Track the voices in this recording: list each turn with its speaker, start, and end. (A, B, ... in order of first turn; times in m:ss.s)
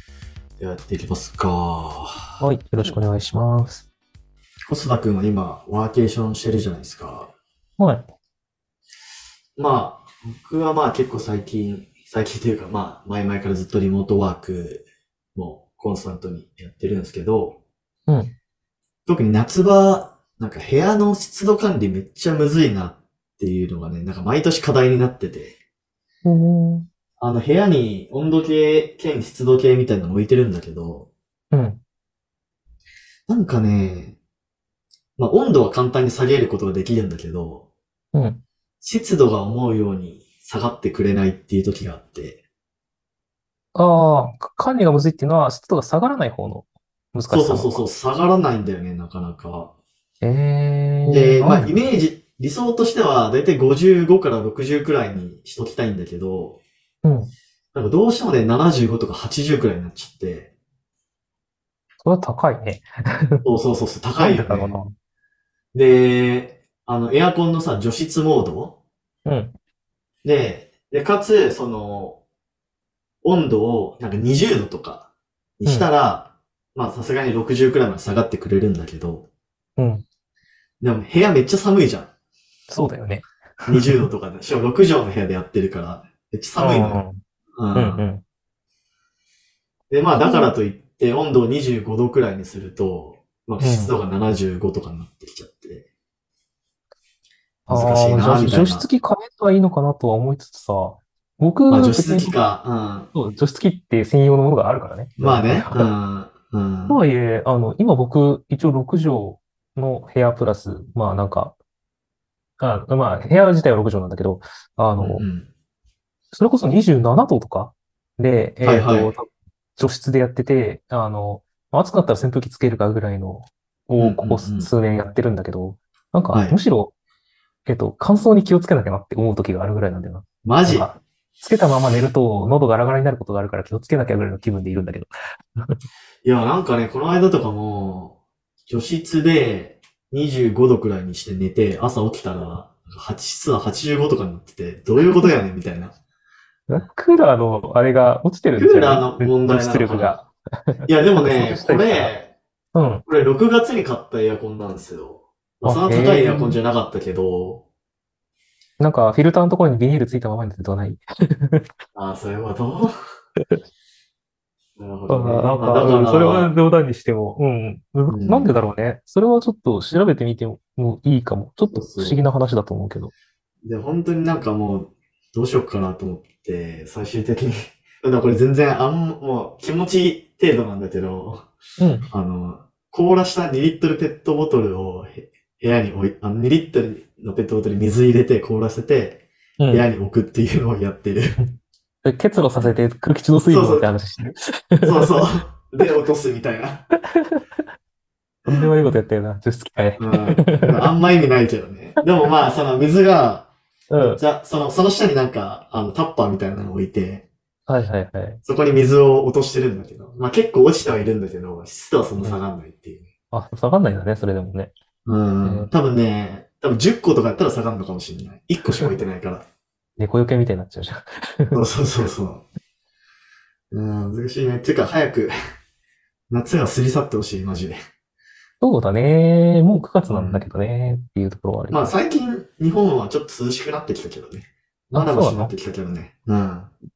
0:00.6-0:03.0 A
0:02.4-0:03.9 B
0:04.7-0:07.3 A
0:07.8-0:08.0 B
0:09.6-0:17.6 A
0:18.1-0:18.3 B
0:19.1-0:25.6 A
0:26.2-0:26.9 B
0:27.2-0:31.1 A
0:31.5-0:31.8 B
0:33.3-0:34.2 A
0:35.2-0:37.7 A
0:38.1-0:38.4 B
0:38.8-0:42.4 A
0:43.8-0:47.8 B
0:47.3-0:49.7 A
0:50.2-0:51.8 B
0:51.1-0:56.6 A
0:57.0-0:57.3 B
0:57.7-1:00.5 A
1:02.0-1:03.4 B
1:03.4-1:04.8 A
1:04.2-1:04.9 B
1:05.7-1:08.8 A
1:09.2-1:09.5 B
1:10.2-1:12.2 A
1:13.2-1:19.3 A
1:19.8-1:20.0 B
1:20.8-1:22.1 A
1:22.7-1:24.1 B
1:23.7-1:27.0 A
1:26.6-1:27.2 B
1:27.6-1:28.0 A
1:27.8-1:28.2 B
1:29.9-1:35.9 A
1:30.2-1:30.5 B
1:33.6-1:33.9 B
1:37.7-1:42.4 B
1:37.7-1:38.9 A
1:41.7-1:43.1 A
1:43.1-1:45.9 B
1:45.2-1:47.0 A
1:46.9-1:51.6 B
1:52.6-1:55.2 B
1:55.0-1:55.5 A
1:56.3-2:06.9 B
1:58.6-1:59.1 A
2:04.0-2:04.7 A
2:07.7-2:15.8 B
2:10.4-2:10.9 A
2:16.2-2:25.9 A
2:26.7-2:32.2 B
2:28.6-2:30.2 A
2:30.9-2:32.3 A
2:32.7-2:33.0 B
2:33.1-2:37.6 A
2:35.6-2:36.6 B
2:38.8-2:41.6 B
2:41.9-2:42.9 A
2:44.8-2:46.5 A
2:45.1-2:53.1 B
2:48.1-2:48.6 A
2:51.7-2:52.2 A
2:53.6-3:01.5 A
3:01.8-3:02.1 B
3:02.1-3:11.4 A
3:09.6-3:09.8 B
3:12.0-3:15.2 B
3:13.5-3:13.9 A
3:14.8-3:16.8 A
3:18.5-3:20.9 B
3:20.0-3:27.2 A
3:23.9-3:24.2 B
3:27.7-3:28.4 B
3:28.4-3:33.1 A
3:33.3-3:34.7 B
3:35.1-3:39.5 A
3:35.4-3:35.7 B
3:38.6-3:38.9 B
3:40.0-3:41.6 B
3:41.5-3:42.5 A
3:43.7-3:45.3 A
3:46.3-3:47.8 A
3:48.6-3:51.9 B
3:50.1-3:50.4 A
3:51.7-3:56.7 A
3:54.9-3:55.5 B